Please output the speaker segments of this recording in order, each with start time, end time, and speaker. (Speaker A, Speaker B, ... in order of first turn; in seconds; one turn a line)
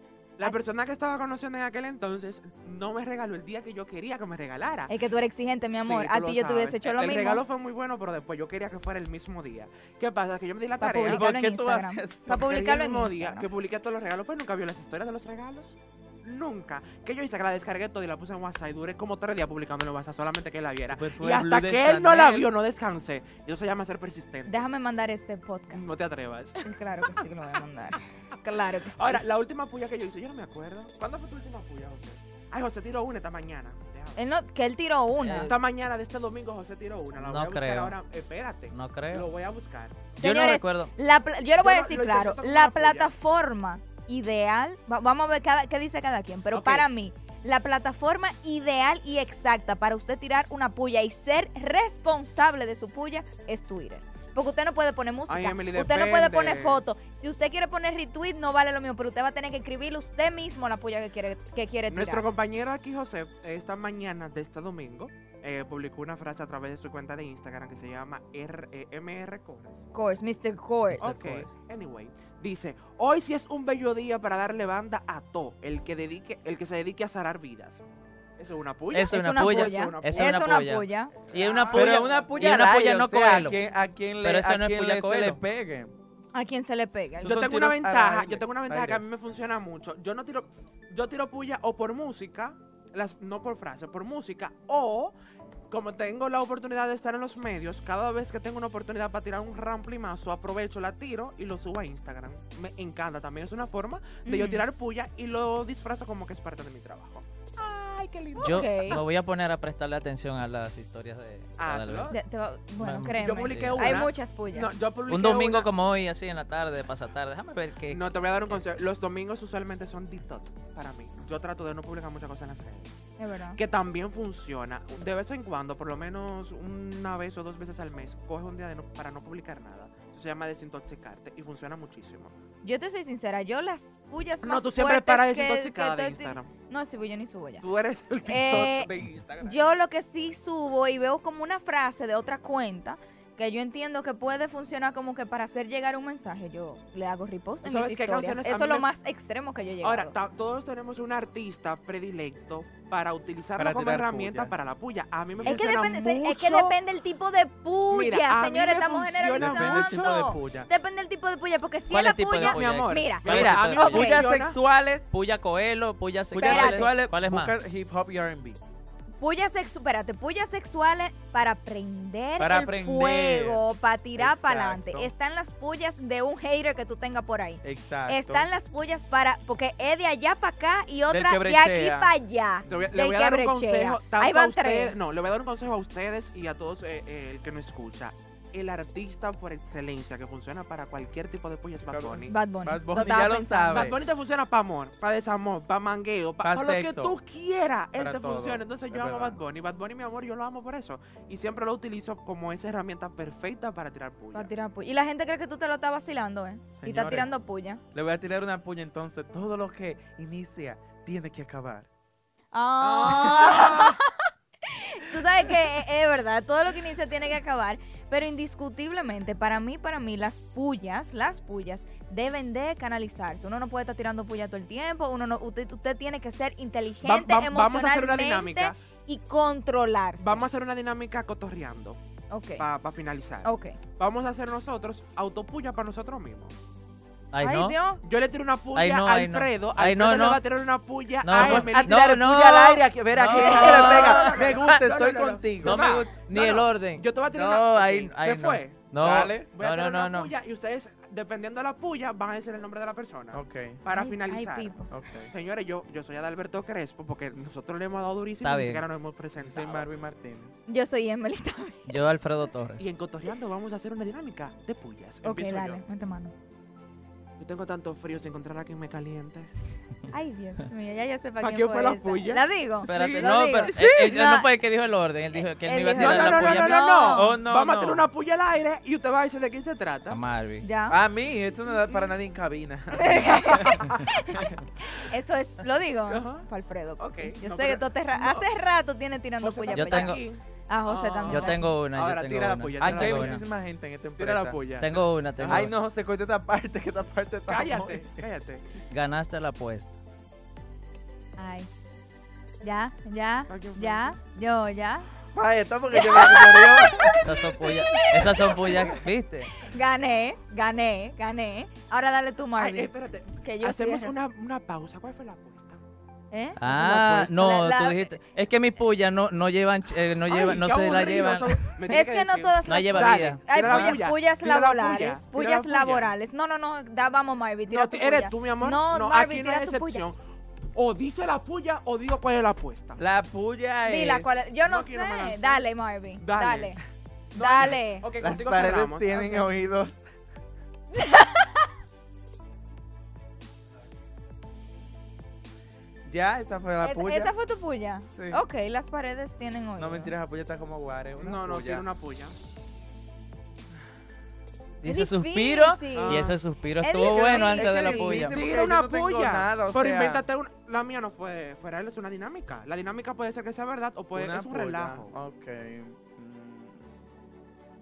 Speaker A: 0.4-4.9
Speaker B: 4.9-7.4
Speaker A: 5.7-11.3
Speaker B: 10.8-13.5
Speaker C: 11.0-12.6
Speaker A: 12.3-24.7
Speaker C: 20.9-22.5
Speaker B: 24.5-25.9
Speaker A: 25.7-27.3
Speaker B: 26.6-29.2
Speaker A: 29.0-34.2
Speaker B: 34.2-35.5
Speaker D: 35.2-35.6
Speaker A: 35.2-40.1
Speaker D: 37.2-38.0
Speaker D: 38.7-39.3
Speaker D: 40.2-40.9
Speaker B: 40.2-62.2
Speaker A: 41.5-43.1
Speaker A: 46.5-46.9
Speaker A: 55.3-56.8
Speaker A: 61.9-69.9
Speaker B: 69.9-71.3
Speaker D: 70.9-71.5
Speaker A: 71.0-77.8
Speaker A: 78.4-80.6
Speaker D: 78.9-83.6
Speaker B: 79.1-81.2
Speaker A: 81.3-82.3
Speaker C: 81.7-85.9
Speaker D: 84.2-85.4
Speaker B: 86.3-87.4
Speaker A: 87.2-95.2
Speaker C: 87.2-89.0
Speaker A: 95.7-109.0
Speaker B: 104.2-104.6
Speaker B: 108.4-109.0
Speaker D: 108.4-112.1
Speaker A: 111.6-112.2
Speaker B: 112.1-114.7
Speaker D: 112.8-114.1
Speaker A: 113.1-115.7
Speaker D: 115.1-118.6
Speaker A: 117.9-122.9
Speaker B: 123.2-123.6
Speaker A: 123.5-132.3
Speaker B: 132.6-137.7
Speaker A: 134.4-136.5
Speaker A: 137.6-139.7
Speaker B: 138.2-150.1
Speaker A: 147.6-148.9
Speaker A: 149.8-156.8
Speaker C: 153.6-154.7
Speaker B: 155.4-164.2
Speaker A: 157.9-160.1
Speaker C: 159.4-160.7
Speaker D: 161.9-164.1
Speaker A: 162.4-164.6
Speaker C: 163.2-165.1
Speaker D: 165.1-167.6
Speaker C: 166.3-168.6
Speaker B: 166.4-166.9
Speaker B: 169.2-185.0
Speaker C: 172.4-173.7
Speaker C: 174.2-175.1
Speaker C: 177.6-178.5
Speaker C: 181.1-182.9
Speaker A: 182.7-192.4
Speaker C: 191.8-194.0
Speaker B: 192.3-193.9
Speaker A: 193.7-204.5
Speaker C: 196.4-197.2
Speaker C: 197.9-199.4
Speaker B: 204.3-207.8
Speaker C: 206.8-207.3
Speaker C: 207.9-211.9
Speaker B: 212.5-230.4
Speaker A: 212.8-214.0
Speaker A: 227.0-228.8
Speaker A: 230.2-232.0
Speaker B: 232.3-232.7
Speaker A: 232.6-236.5
Speaker B: 233.4-233.8
Speaker D: 237.3-237.8
Speaker B: 237.4-238.0
Speaker A: 238.0-242.1
Speaker D: 238.7-240.4
Speaker D: 241.2-244.8
Speaker C: 241.3-245.9
Speaker A: 243.2-254.8
Speaker B: 243.6-243.9
Speaker D: 245.6-250.3
Speaker C: 249.0-249.5
Speaker C: 253.3-253.8
Speaker B: 253.9-254.9
Speaker C: 254.9-255.3
Speaker A: 255.3-259.9
Speaker D: 258.4-258.9
Speaker C: 259.4-260.6
Speaker B: 260.7-261.9
Speaker D: 261.9-262.9
Speaker A: 262.8-265.8
Speaker B: 265.2-266.3
Speaker A: 267.4-269.5
Speaker B: 270.1-274.5
Speaker A: 271.4-274.2
Speaker D: 272.9-276.8
Speaker B: 275.4-277.4
Speaker A: 275.9-280.2
Speaker C: 277.0-278.1
Speaker D: 280.1-280.7
Speaker B: 280.6-281.0
Speaker C: 280.9-283.8
Speaker B: 282.9-291.7
Speaker A: 283.3-284.1
Speaker A: 286.1-286.5
Speaker A: 287.0-288.5
Speaker A: 289.4-293.5
Speaker D: 289.7-290.2
Speaker D: 291.3-293.4
Speaker C: 292.8-294.6
Speaker A: 294.2-295.7
Speaker D: 294.8-295.7
Speaker C: 295.4-298.2
Speaker A: 297.5-298.7
Speaker D: 298.9-300.0
Speaker B: 301.4-301.7
Speaker B: 302.6-305.1
Speaker A: 303.5-304.2
Speaker C: 305.3-307.2
Speaker B: 305.9-308.9
Speaker D: 307.2-309.5
Speaker B: 309.6-314.1
Speaker A: 312.6-315.8
Speaker B: 316.3-318.1
Speaker D: 316.6-321.6
Speaker A: 320.2-326.1
Speaker B: 321.9-330.1
Speaker D: 322.6-324.0
Speaker A: 327.7-330.2
Speaker A: 330.8-333.0
Speaker C: 333.0-334.3
Speaker B: 333.8-336.8
Speaker A: 334.6-336.8
Speaker A: 337.3-339.5
Speaker B: 337.4-338.1
Speaker C: 338.2-340.0
Speaker B: 340.9-341.7
Speaker C: 346.1-347.3
Speaker B: 346.8-350.2
Speaker C: 348.1-348.4
Speaker C: 349.8-351.9
Speaker A: 351.2-352.4
Speaker D: 354.8-358.4
Speaker B: 354.9-356.2
Speaker A: 355.9-356.4
Speaker B: 356.8-358.2
Speaker A: 357.1-365.1
Speaker C: 357.4-360.2
Speaker C: 364.1-366.9